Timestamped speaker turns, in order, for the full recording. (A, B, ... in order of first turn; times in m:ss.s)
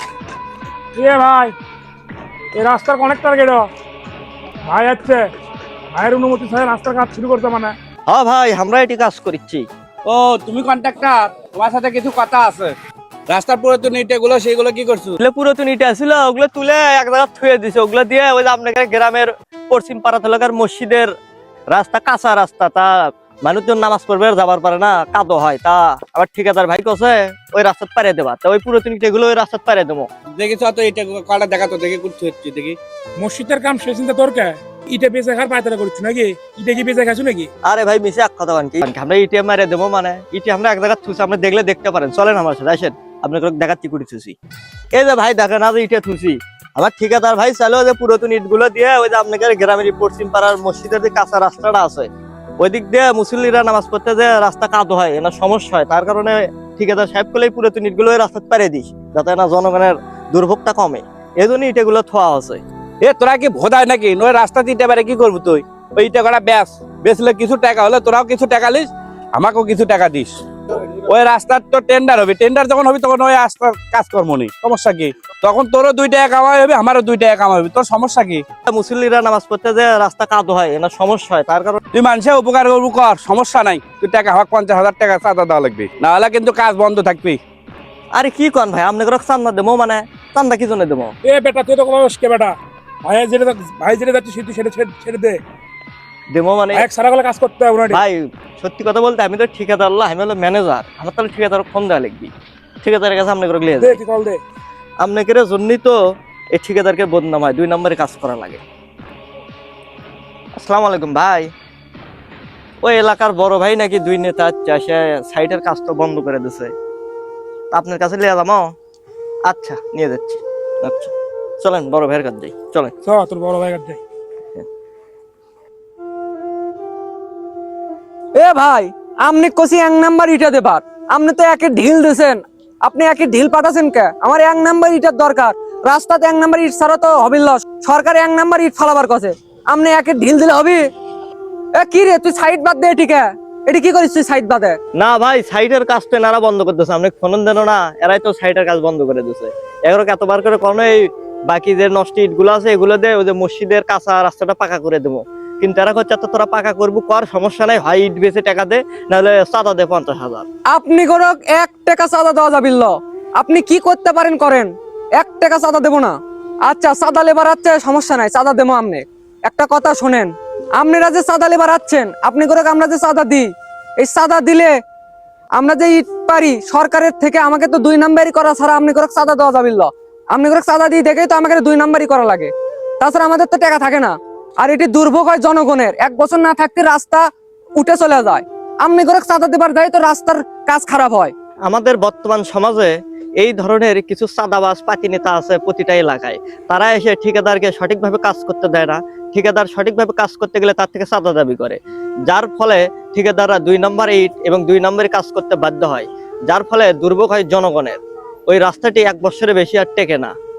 0:01.0-0:01.6 A
0:02.5-0:03.7 A
0:04.7-0:05.3 A
0:05.9-0:07.8 A
0:08.1-0:09.7 B
0:10.1-0:12.8 C
0:13.3-0:15.2 C
0:15.2-0:21.1 B
0:21.7-0:30.1 B
0:30.3-0:32.8 C
0:33.2-0:37.5 A
0:37.6-0:44.4 B
0:44.9-1:02.6 B
1:03.0-1:10.3 C
1:11.1-1:18.4 C
1:18.7-1:21.8 B
1:21.9-1:27.4 C
1:28.1-1:31.1 B
1:31.2-1:35.4 A
1:36.3-1:36.9 B
1:36.7-1:38.0 A
1:37.9-1:44.0 B
1:43.8-1:44.4 A
1:45.0-1:46.0 B
1:46.5-1:48.6 B
1:50.6-1:51.5 B
1:52.8-1:56.7 B
1:57.7-1:58.7 B
1:59.4-2:02.9 B
2:03.0-2:04.0 A
2:08.4-2:20.8 D
2:21.8-2:24.8 D
2:25.0-2:40.5 B
2:40.7-2:54.7 D
2:55.6-3:11.3 D
3:11.7-3:30.3 B